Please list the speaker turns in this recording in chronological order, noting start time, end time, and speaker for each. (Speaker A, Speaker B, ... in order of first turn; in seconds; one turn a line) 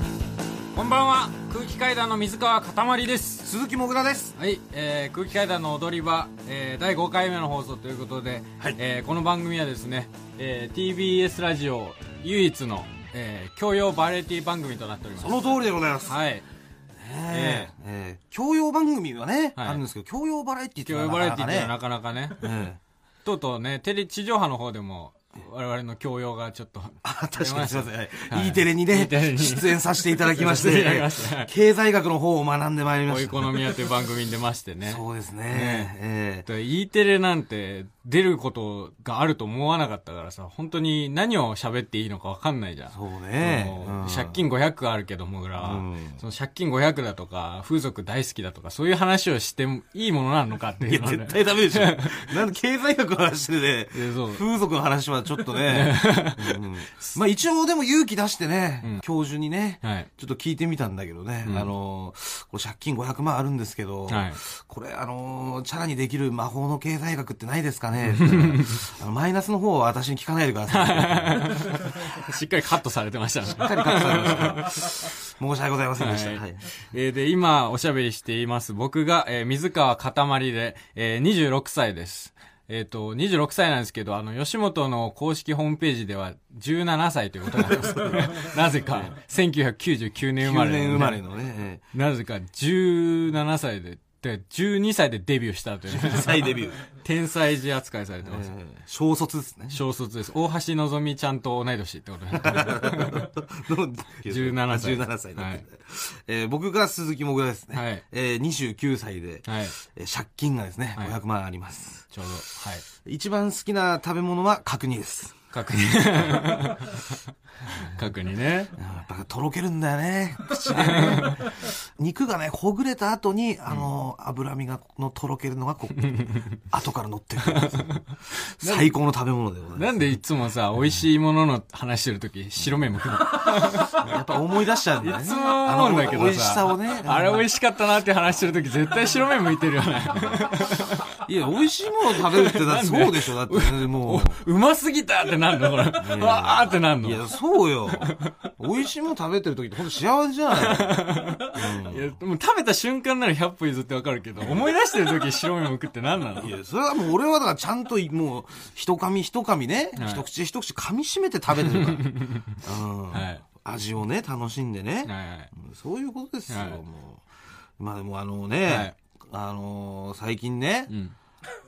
Speaker A: 0.7-3.5
Speaker B: 3.4-4.4
Speaker A: 4.3-16.4
Speaker B: 15.2-16.2
Speaker B: 17.0-21.7
Speaker A: 17.3-17.7
Speaker A: 20.9-22.5
Speaker B: 22.4-22.8
Speaker A: 23.2-31.5
Speaker B: 27.0-33.7
Speaker A: 33.1-35.9
Speaker B: 34.9-36.5
Speaker A: 36.5-52.3
Speaker B: 42.9-44.4
Speaker B: 45.6-46.2
Speaker B: 50.9-71.8
Speaker A: 53.9-54.4
Speaker A: 55.7-57.1
Speaker A: 59.8-60.1
Speaker A: 64.1-64.4
Speaker A: 68.1-68.8
Speaker A: 70.7-75.1
Speaker B: 73.5-76.7
Speaker A: 76.0-91.2
Speaker B: 87.5-89.1
Speaker B: 90.4-91.8
Speaker A: 91.9-98.5
Speaker B: 95.9-96.8
Speaker B: 98.2-99.8
Speaker A: 99.7-103.3
Speaker B: 102.3-112.1
Speaker A: 104.3-105.6
Speaker A: 107.7-108.0
Speaker A: 109.5-109.8
Speaker A: 112.1-112.8
Speaker B: 113.0-115.4
Speaker A: 115.5-117.1
Speaker A: 117.7-118.7
Speaker B: 118.8-130.0
Speaker A: 120.7-121.5
Speaker A: 126.2-126.5
Speaker A: 127.5-128.9
Speaker A: 129.8-134.0
Speaker B: 133.7-137.4
Speaker A: 135.0-141.1
Speaker B: 141.2-144.4
Speaker A: 142.1-147.2
Speaker B: 146.0-152.1
Speaker A: 148.0-148.3
Speaker A: 150.6-156.5
Speaker B: 156.4-167.2
Speaker A: 160.0-160.2
Speaker A: 161.7-162.6
Speaker A: 163.1-163.4
Speaker A: 165.1-165.5
Speaker A: 166.5-166.8
Speaker B: 167.8-170.9
Speaker A: 168.7-168.9
Speaker A: 170.9-171.2